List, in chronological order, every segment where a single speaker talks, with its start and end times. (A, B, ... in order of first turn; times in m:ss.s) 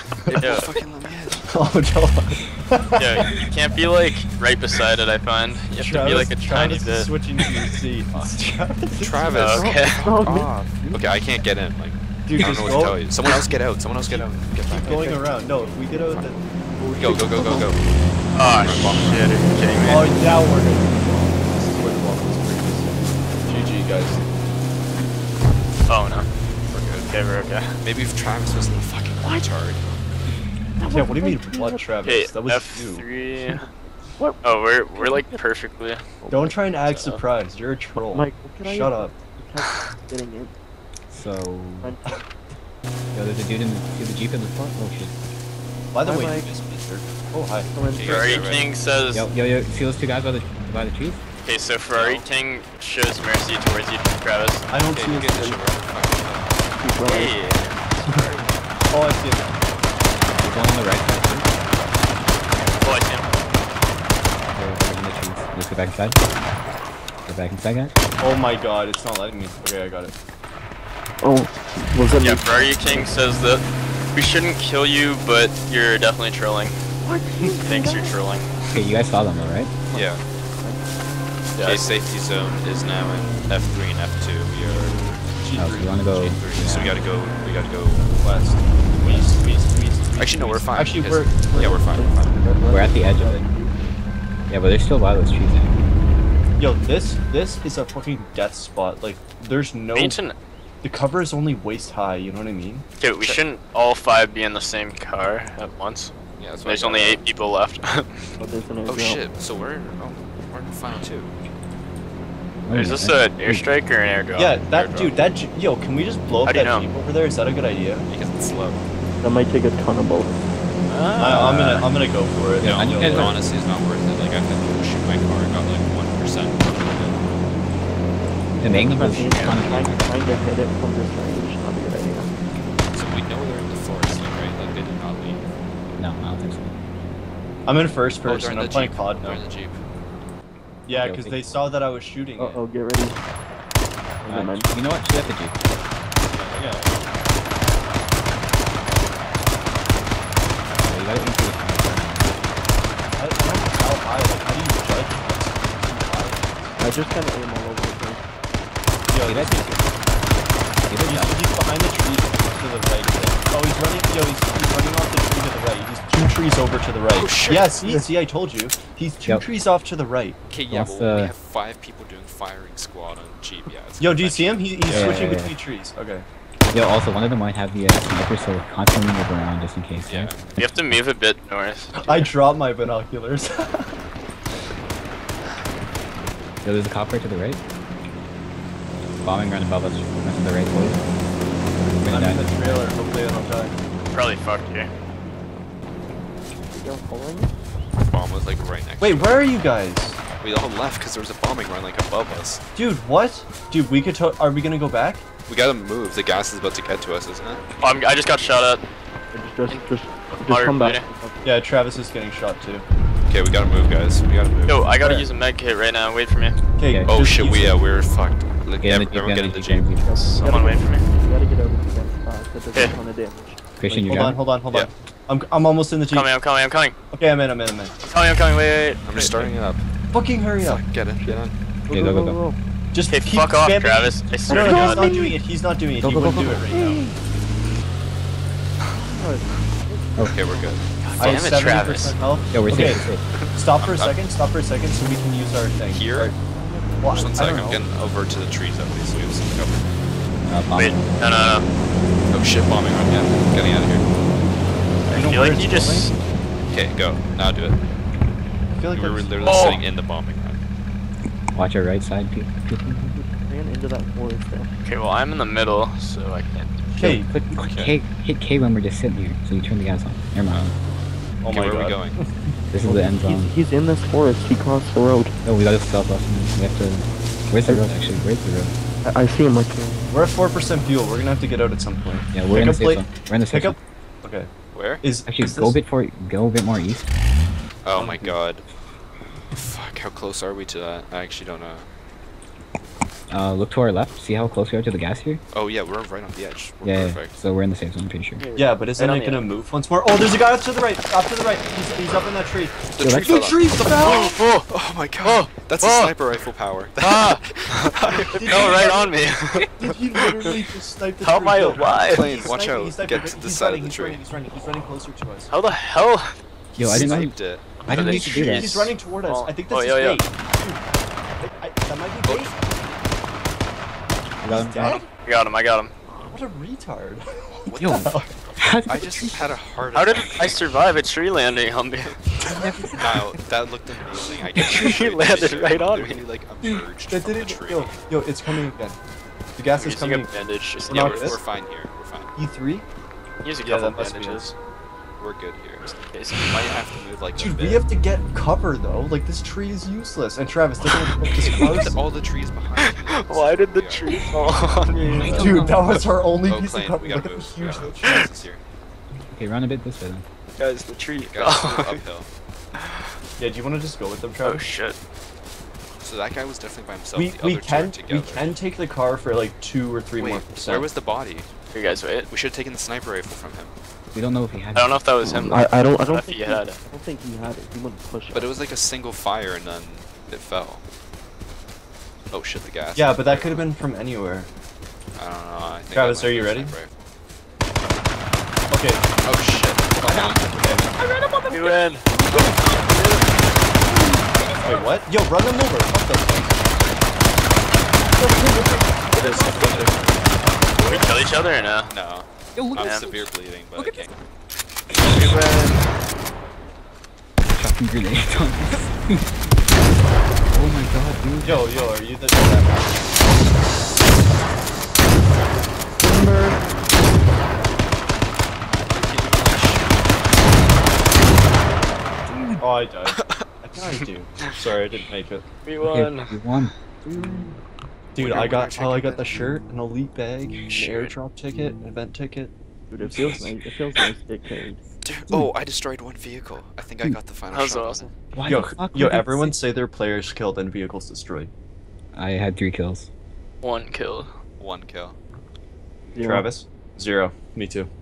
0:00.3-0:01.5 A
0:00.3-0:00.7 B
0:01.4-0:03.4 C
0:03.0-0:07.1 B
0:05.7-0:09.7 C
0:09.0-0:16.3 A
0:09.3-0:10.0 B
0:09.5-0:10.8 D
0:12.2-0:13.4 C
0:14.0-0:17.7 C
0:14.7-0:15.3 D
0:15.9-0:16.4 D
0:16.9-0:17.8 A
0:18.3-0:20.1 B
0:18.4-0:19.2 A
0:19.8-0:24.2 C
0:25.9-0:26.3 B
0:26.7-0:27.1 A
0:27.0-0:27.8 B
0:27.8-0:29.9 A
0:29.2-0:29.5 D
0:30.8-0:31.8 D
0:30.9-0:33.0 C
0:32.0-0:33.7 B
0:34.2-0:35.4 D
0:34.4-0:36.0 B
0:36.2-0:36.6 D
0:36.3-0:39.1 C
0:36.8-0:37.2 B
0:38.0-0:40.5 D
0:41.1-0:41.9 E
0:41.8-0:42.2 D
0:43.1-0:45.1 E
0:45.9-0:47.7 C
0:46.0-0:46.5 D
0:47.7-0:48.2 D
0:47.8-0:48.7 A
0:48.0-0:49.2 B
0:49.1-0:51.2 E
0:51.4-0:54.7 B
0:51.9-0:52.3 A
0:54.7-0:55.6 C
0:54.8-0:56.6 A
0:56.7-0:57.3 D
0:57.0-0:58.5 B
0:58.0-0:58.3 C
0:58.9-0:59.6 C
1:00.1-1:01.6 E
1:02.6-1:03.3 B
1:04.5-1:06.2 E
1:07.2-1:08.0 E
1:08.2-1:10.1 C
1:11.2-1:13.2 D
1:12.1-1:16.8 B
1:17.0-1:18.2 D
1:17.6-1:18.8 B
1:18.7-1:19.7 E
1:19.9-1:20.2 A
1:19.9-1:20.8 D
1:21.5-1:25.3 A
1:21.6-1:21.8 B
1:25.4-1:25.9 C
1:25.5-1:27.0 E
1:25.9-1:28.1 A
1:28.2-1:31.9 C
1:30.2-1:32.4 A
1:31.5-1:33.9 D
1:32.7-1:33.4 E
1:34.5-1:35.8 E
1:36.6-1:40.2 C
1:39.9-1:40.4 B
1:40.8-1:42.9 C
1:43.0-1:48.3 B
1:46.4-1:47.2 A
1:48.4-1:49.2 D
1:48.8-1:51.4 A
1:52.6-1:53.6 E
1:52.7-1:54.6 B
1:54.4-1:58.0 C
1:54.5-1:55.2 A
1:56.4-1:56.8 B
1:58.1-1:58.9 A
1:59.2-2:00.4 D
2:00.9-2:01.9 B
2:01.2-2:03.4 C
2:02.6-2:03.4 E
2:02.6-2:07.2 A
2:08.6-2:10.1 E
2:08.6-2:12.3 D
2:12.9-2:15.4 A
2:16.0-2:16.7 E
2:17.6-2:19.4 C
2:18.2-2:19.8 A
2:20.8-2:22.6 C
2:20.9-2:21.4 E
2:22.4-2:23.2 D
2:24.2-2:24.7 D
2:24.3-2:25.6 E
2:26.3-2:27.0 A
2:26.5-2:26.9 C
2:30.8-2:32.5 E
2:33.2-2:36.4 C
2:36.8-2:38.3 D
2:39.1-2:39.8 C
2:39.2-2:39.9 E
2:40.9-2:41.4 E
2:41.0-2:50.4 C
2:47.1-2:47.8 A
2:50.5-2:55.2 A
2:50.7-2:51.3 E
2:54.0-2:56.2 C
2:54.9-2:55.5 E
2:56.7-3:00.7 E
3:00.0-3:00.4 A
3:00.6-3:02.3 B
3:02.0-3:04.0 C
3:06.6-3:07.6 E
3:09.2-3:11.0 E
3:12.0-3:12.5 E
3:12.1-3:13.7 C
3:14.1-3:14.9 B
3:16.7-3:17.5 D
3:18.0-3:19.5 A
3:19.0-3:20.2 C
3:20.4-3:22.6 A
3:22.7-3:25.2 C
3:25.5-3:27.6 A
3:27.8-3:28.8 B
3:29.3-3:31.5 D
3:29.7-3:31.0 B
3:31.4-3:32.8 C
3:33.3-3:34.9 A
3:34.7-3:36.6 B
3:34.9-3:35.2 C
3:36.8-3:37.8 C
3:36.9-3:37.1 E
3:37.0-3:39.9 A
3:38.8-3:40.0 E
3:40.0-3:41.0 B
3:40.4-3:44.3 D
3:43.8-3:44.4 E
3:44.0-3:46.3 C
3:46.1-3:46.9 B
3:47.1-3:47.9 C
3:48.0-3:49.5 B
3:49.0-3:49.8 A
3:50.1-3:50.8 C
3:50.6-3:51.6 A
3:51.2-3:52.6 D
3:51.9-3:52.4 E
3:52.9-3:56.9 C
3:53.1-3:55.1 B
3:54.5-3:55.4 D
3:56.0-3:56.7 E
3:56.7-3:57.2 D
3:59.0-4:00.8 D
4:00.2-4:01.6 A
4:01.0-4:02.2 B
4:01.2-4:06.4 C
4:02.5-4:03.2 E
4:02.7-4:04.3 A
4:05.9-4:06.3 A
4:06.5-4:07.2 D
4:07.0-4:07.8 C
4:07.1-4:10.0 A
4:10.5-4:11.1 E
4:10.8-4:11.6 B
4:12.3-4:14.0 A
4:15.1-4:16.1 C
4:15.1-4:16.1 B
4:16.7-4:17.8 A
4:18.7-4:19.8 C
4:18.9-4:20.6 A
4:19.4-4:19.8 B
4:21.5-4:22.9 E
4:23.1-4:24.7 D
4:24.8-4:26.8 B
4:26.9-4:27.3 C
4:27.0-4:30.7 E
4:27.6-4:27.9 A
4:31.4-4:32.5 C
4:31.5-4:32.2 A
4:32.7-4:33.5 E
4:32.8-4:35.3 D
4:35.4-4:38.7 E
4:37.6-4:37.9 D
4:39.0-4:40.0 D
4:40.1-4:45.8 C
4:42.3-4:43.8 E
4:44.7-4:45.0 A
4:45.2-4:47.1 E
4:47.8-4:48.6 A
4:48.0-4:48.3 E
4:49.5-4:51.9 A
4:53.3-4:55.4 E
4:55.5-4:57.3 A
4:56.8-4:58.4 E
4:58.4-4:59.0 D
4:58.5-5:04.3 C
4:59.0-4:59.5 B
5:02.9-5:08.8 A
5:03.0-5:03.4 E
5:04.1-5:04.7 B
5:05.2-5:06.1 B
5:07.0-5:09.9 B
5:08.3-5:09.1 C
5:09.8-5:15.5 C
5:11.2-5:12.5 B
5:12.0-5:14.2 A
5:15.5-5:16.3 B
5:16.7-5:18.5 A
5:16.8-5:19.0 E
5:17.8-5:18.7 B
5:17.9-5:20.8 C
5:19.2-5:20.2 B
5:21.4-5:22.9 C
5:22.2-5:22.7 A
5:24.4-5:25.0 E
5:24.4-5:25.1 C
5:25.2-5:25.9 B
5:26.1-5:27.3 C
5:27.4-5:31.0 A
5:27.7-5:29.5 E
5:28.0-5:28.3 C
5:29.9-5:32.1 B
5:32.0-5:38.0 A
5:32.5-5:33.3 E
5:34.6-5:36.2 B
5:36.6-5:39.0 C
5:39.6-5:41.4 C
5:39.7-5:41.3 B
5:40.8-5:42.3 A
5:42.4-5:42.8 C
5:43.4-5:44.5 B
5:43.6-5:44.4 C
5:45.2-5:47.9 A
5:45.9-5:46.8 B
5:47.3-5:52.0 C
5:50.8-5:54.7 A
5:52.8-5:55.7 B
5:55.0-5:56.0 E
5:55.3-5:58.4 C
5:56.4-5:58.6 A
5:59.3-6:00.2 E
6:00.6-6:02.0 B
6:01.2-6:02.3 A
6:02.7-6:03.0 B
6:03.4-6:04.6 C
6:04.4-6:05.0 B
6:06.0-6:08.6 A
6:07.1-6:10.9 C
6:10.2-6:11.5 A
6:11.7-6:12.3 B
6:12.3-6:13.7 A
6:14.1-6:14.9 E
6:14.7-6:16.8 B
6:15.2-6:18.5 D
6:18.3-6:20.8 A
6:22.3-6:23.7 A
6:22.9-6:24.5 C
6:25.2-6:26.9 A
6:25.9-6:26.7 C
6:28.7-6:29.0 C
6:29.2-6:30.4 A
6:30.0-6:30.9 C
6:30.0-6:33.1 E
6:31.5-6:32.5 B
6:33.8-6:34.8 E
6:34.6-6:36.7 C
6:38.2-6:40.2 E
6:38.7-6:40.1 C
6:39.2-6:40.1 A
6:40.7-6:41.1 E
6:40.8-6:41.9 B
6:41.9-6:44.2 A
6:42.5-6:44.0 E
6:42.8-6:43.2 B
6:44.9-6:45.3 E
6:45.0-6:45.9 A
6:45.2-6:45.8 B
6:47.5-6:49.3 E
6:50.5-6:51.8 E
6:51.4-6:53.4 C
6:56.0-6:56.6 D
6:58.9-7:00.2 A
7:02.6-7:05.4 C
7:03.1-7:04.5 A
7:05.6-7:06.3 B
7:05.8-7:06.7 E
7:07.0-7:07.6 D
7:08.1-7:13.4 C
7:08.2-7:09.4 A
7:10.7-7:11.1 B
7:12.9-7:14.8 D
7:15.0-7:18.1 A
7:17.5-7:18.1 B
7:18.3-7:19.6 E
7:18.5-7:21.5 C
7:22.1-7:23.1 E
7:23.6-7:24.3 B
7:24.6-7:25.2 A
7:26.1-7:26.5 D
7:26.1-7:27.9 C